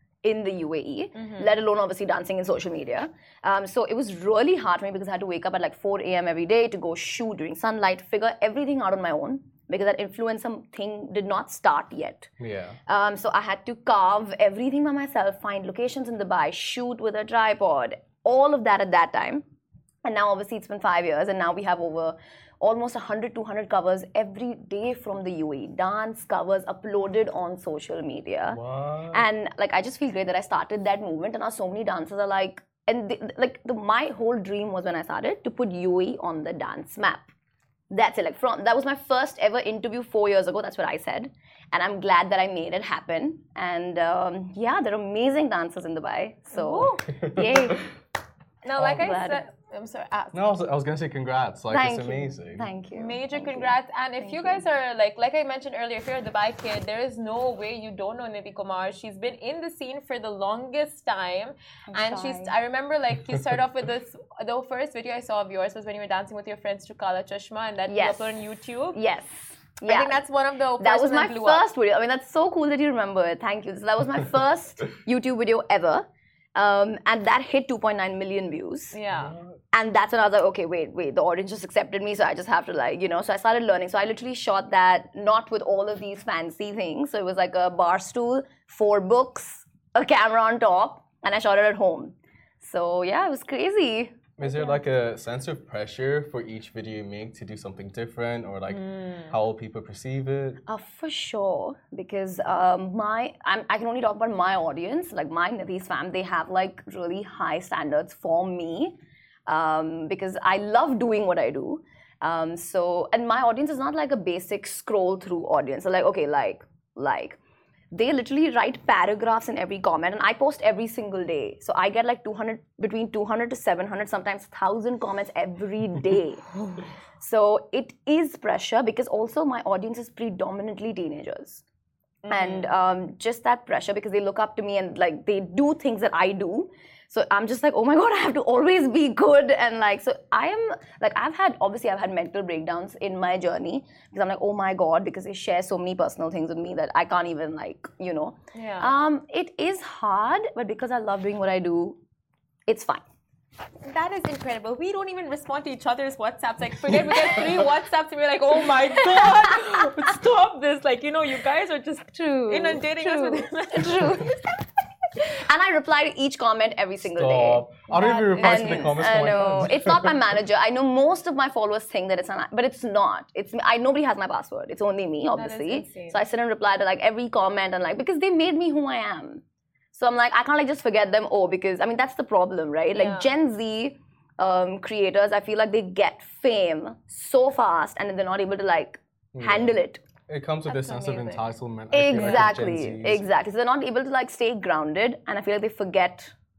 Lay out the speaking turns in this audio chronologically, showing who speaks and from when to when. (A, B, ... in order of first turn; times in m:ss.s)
0:00.2-0:12.3 A
0:01.1-0:01.5 B
0:12.4-0:12.8 C
0:12.9-0:19.4 A
0:20.0-0:28.6 A
0:28.5-0:29.3 C
0:29.1-0:37.3 A
0:37.9-0:47.8 A
0:46.5-0:47.1 B
0:47.2-0:47.7 C
0:48.6-0:50.5 B
0:48.8-0:49.4 A
0:50.3-0:52.7 C
0:51.7-0:54.6 A
0:53.0-1:09.0 B
1:01.9-1:02.5 A
1:07.9-1:08.3 A
1:09.0-1:10.2 A
1:09.9-1:11.6 B
1:10.8-1:19.0 A
1:18.9-1:19.4 B
1:19.2-1:19.6 C
1:19.7-1:34.6 A
1:34.4-1:40.6 C
1:38.7-1:39.3 B
1:40.6-1:49.0 A
1:49.5-1:57.4 A
1:57.9-2:06.5 A
2:07.2-2:11.6 A
2:12.2-2:12.7 B
2:12.3-2:32.0 A
2:28.5-2:28.9 B
2:32.7-2:33.0 A
2:33.8-2:44.3 B
2:39.0-2:39.9 A
2:42.1-2:44.4 A
2:45.2-2:47.7 A
2:47.0-2:50.2 C
2:47.9-2:49.7 B
2:48.3-2:59.4 A
2:55.3-2:56.2 B
2:59.9-3:10.0 A
3:02.9-3:03.3 B
3:09.3-3:13.3 C
3:10.7-3:11.4 B
3:11.9-3:16.3 A
3:12.2-3:12.5 B